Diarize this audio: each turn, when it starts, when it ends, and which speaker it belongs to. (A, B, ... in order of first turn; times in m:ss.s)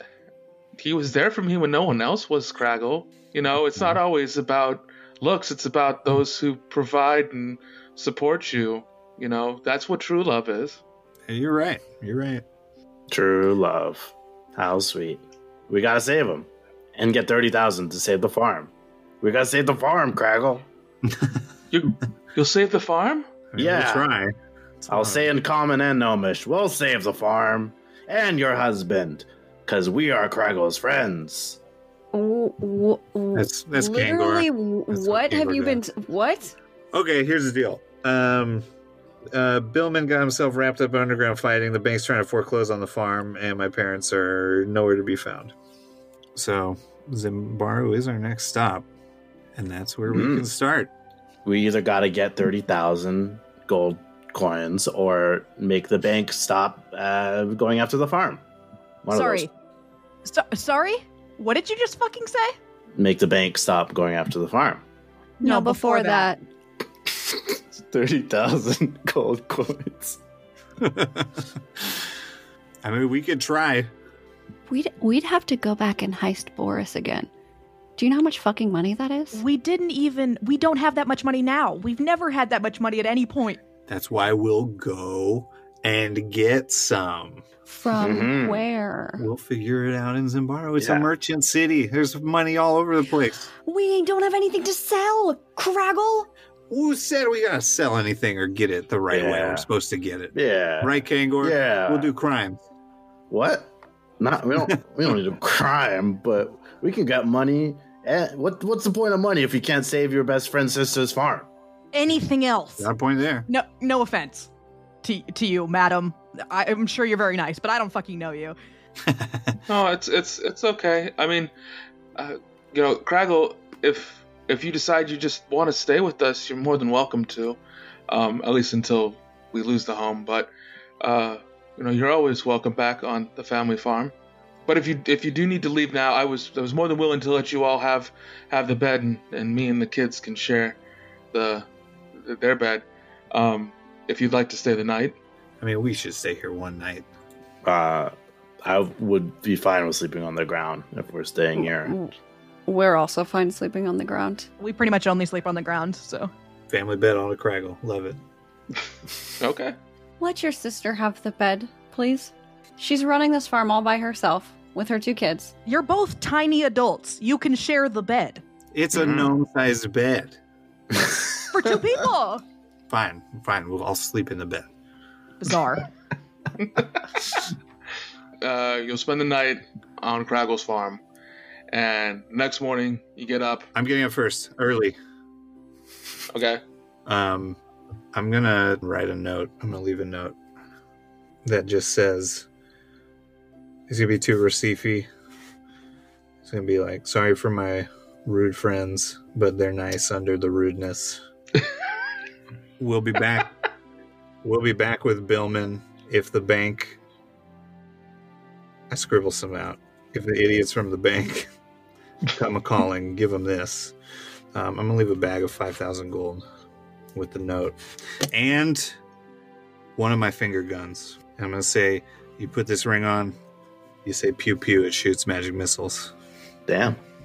0:00.8-0:10.8 A
0:11.3-0:12.4 B
0:13.1-0:18.7 C
0:19.2-0:20.6 C
0:21.1-0:21.3 B
0:21.7-0:23.2 A
0:23.5-0:25.3 B
0:23.6-0:24.1 C
0:24.9-0:31.6 C
0:32.1-0:36.5 D
0:33.3-0:35.8 B
0:36.9-0:38.6 B
0:39.3-0:45.5 B
0:46.3-0:48.9 B
0:49.5-0:50.9 B
0:50.1-0:50.4 C
0:51.4-0:58.4 C
0:59.0-0:59.5 C
0:59.1-0:59.5 E
1:00.2-1:02.5 E
1:03.0-1:04.8 C
1:05.4-1:06.3 E
1:05.4-1:06.4 D
1:07.2-1:10.2 C
1:10.8-1:11.9 B
1:12.8-1:13.9 B
1:14.7-1:17.3 D
1:18.0-1:19.4 D
1:19.3-1:23.6 E
1:23.9-1:27.4 B
1:27.7-1:29.2 D
1:28.0-1:28.6 C
1:29.2-1:33.5 B
1:30.8-1:31.1 C
1:33.6-1:36.3 D
1:36.7-1:42.6 B
1:39.1-1:39.6 C
1:40.3-1:42.1 C
1:43.3-1:51.5 C
1:51.9-1:52.9 E
1:52.8-1:53.4 B
1:53.5-1:54.5 E
1:55.0-1:58.6 E
1:59.0-1:59.6 B
1:59.7-2:01.5 A
2:02.2-2:14.1 A
2:14.7-2:20.8 A
2:21.3-2:25.2 A
2:25.6-2:27.0 B
2:27.6-2:31.9 C
2:31.6-2:32.1 D
2:32.7-2:34.5 D
2:34.6-2:36.3 E
2:36.7-2:38.2 B
2:39.4-2:39.7 A
2:40.2-2:45.5 D
2:45.6-2:48.4 E
2:48.7-2:50.4 B
2:48.9-2:49.3 C
2:51.5-2:52.4 E
2:52.9-2:54.7 B
2:55.4-2:55.8 E
2:56.6-2:56.9 A
2:58.4-3:01.0 A
3:01.7-3:03.7 A
3:03.7-3:05.0 B
3:06.3-3:06.6 A
3:07.0-3:07.6 B
3:08.1-3:10.4 B
3:11.4-3:12.5 B
3:13.9-3:15.1 B
3:16.4-3:21.2 B
3:22.8-3:23.5 B
3:24.4-3:27.0 B
3:28.9-3:31.5 B
3:32.3-3:33.9 B
3:34.5-3:36.4 B
3:37.1-3:39.0 B
3:40.0-3:43.4 B
3:44.0-3:46.1 B
3:46.7-3:47.0 C